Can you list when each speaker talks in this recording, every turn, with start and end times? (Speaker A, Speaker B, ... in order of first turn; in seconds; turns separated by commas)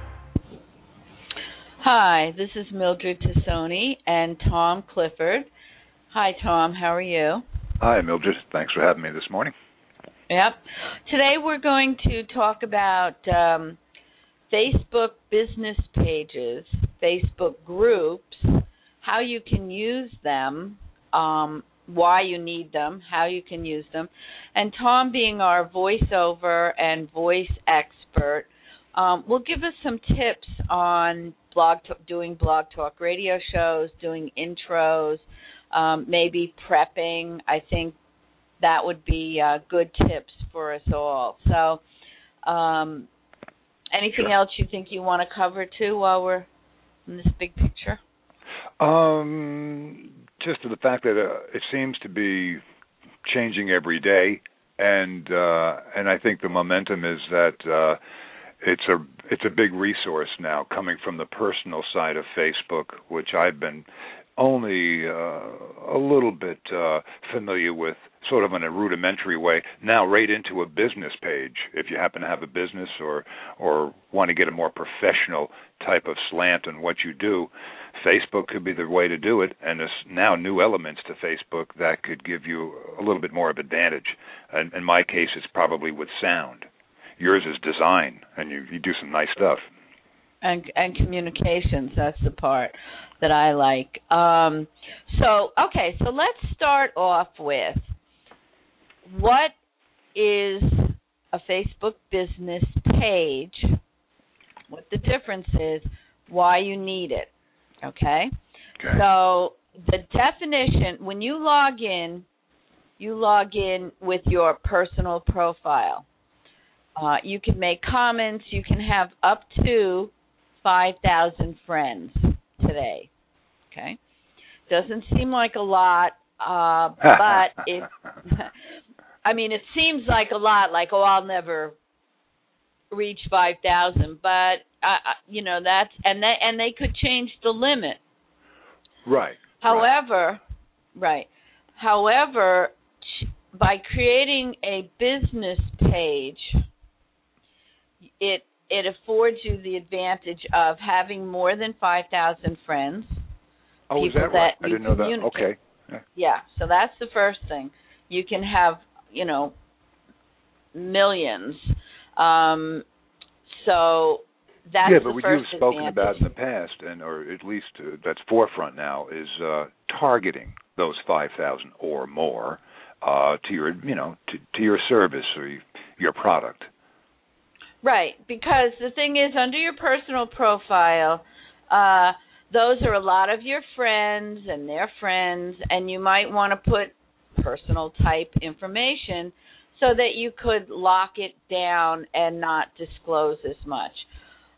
Speaker A: 1.8-5.5, Speaker A: 6.1-7.4, Speaker B: 7.8-9.5, Speaker A: 10.3-13.8, Speaker A: 14.5-38.0, Speaker A: 38.6-41.8, Speaker A: 42.5-43.1, Speaker A: 43.9-46.5, Speaker A: 47.1-48.0, Speaker B: 48.8-52.6, Speaker B: 53.2-58.0, Speaker B: 58.6-63.9, Speaker B: 64.4-86.7, Speaker B: 87.2-89.6, Speaker A: 90.4-97.8, Speaker A: 99.1-99.5, Speaker A: 100.2-103.8, Speaker A: 104.7-107.3, Speaker A: 107.8-108.3, Speaker A: 108.9-112.3, Speaker A: 113.0-116.1, Speaker A: 117.0-123.1, Speaker A: 123.7-124.0, Speaker A: 124.7-128.5, Speaker A: 129.2-131.8, Speaker A: 132.9-138.0, Speaker B: 139.1-139.9, Speaker A: 139.6-140.4, Speaker A: 140.9-146.6, Speaker A: 148.2-153.2, Speaker B: 153.9-156.0, Speaker A: 154.0-155.5, Speaker A: 156.2-159.6, Speaker A: 160.7-162.8, Speaker A: 163.5-166.2, Speaker B: 164.8-176.7, Speaker A: 177.8-194.1